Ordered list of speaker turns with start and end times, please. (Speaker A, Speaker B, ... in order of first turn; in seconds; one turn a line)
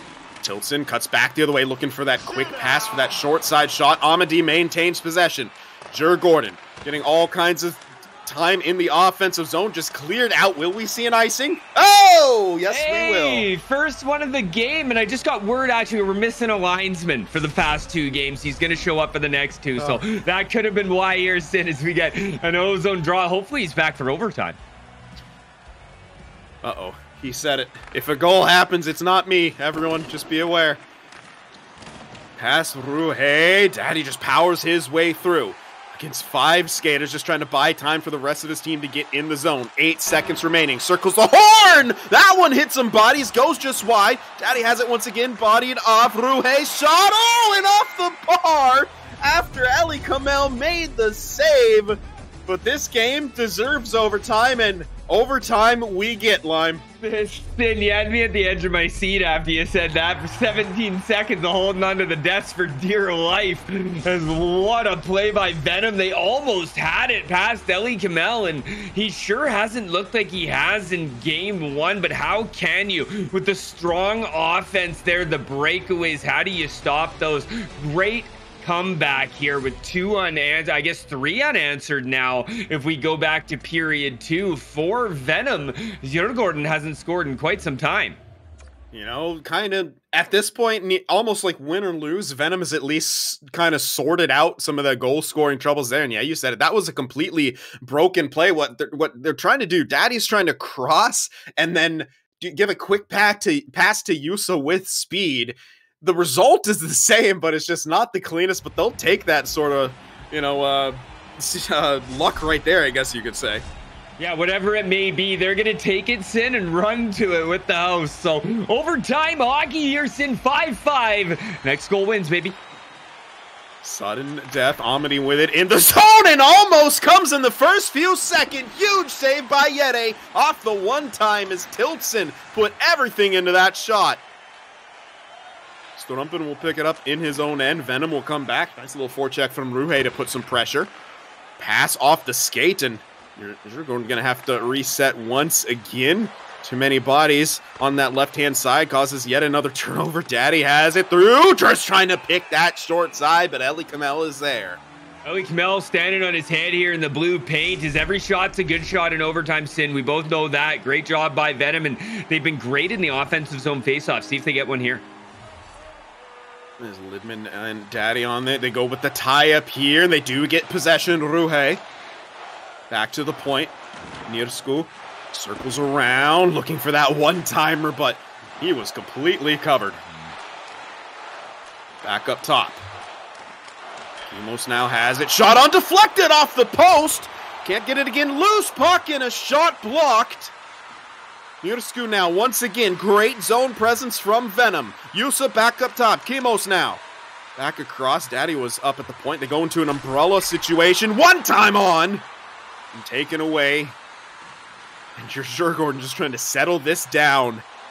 Speaker A: 0.4-13.5
Speaker B: 12.7-24.6
Speaker A: 19.8-20.0
Speaker A: 26.6-30.8
Speaker A: 32.4-56.8
Speaker B: 57.0-88.2
Speaker A: 88.9-113.6
Speaker B: 114.2-122.6
Speaker A: 123.8-134.2
Speaker A: 136.0-140.9
Speaker A: 141.6-154.8
Speaker B: 155.2-165.0
Speaker A: 166.8-171.8
Speaker A: 172.9-173.7
Speaker A: 174.3-180.0
Speaker A: 182.0-182.8
Speaker A: 184.3-190.5
Speaker A: 191.6-197.0
Speaker A: 197.6-202.2
Speaker A: 202.9-203.9
Speaker A: 205.2-207.6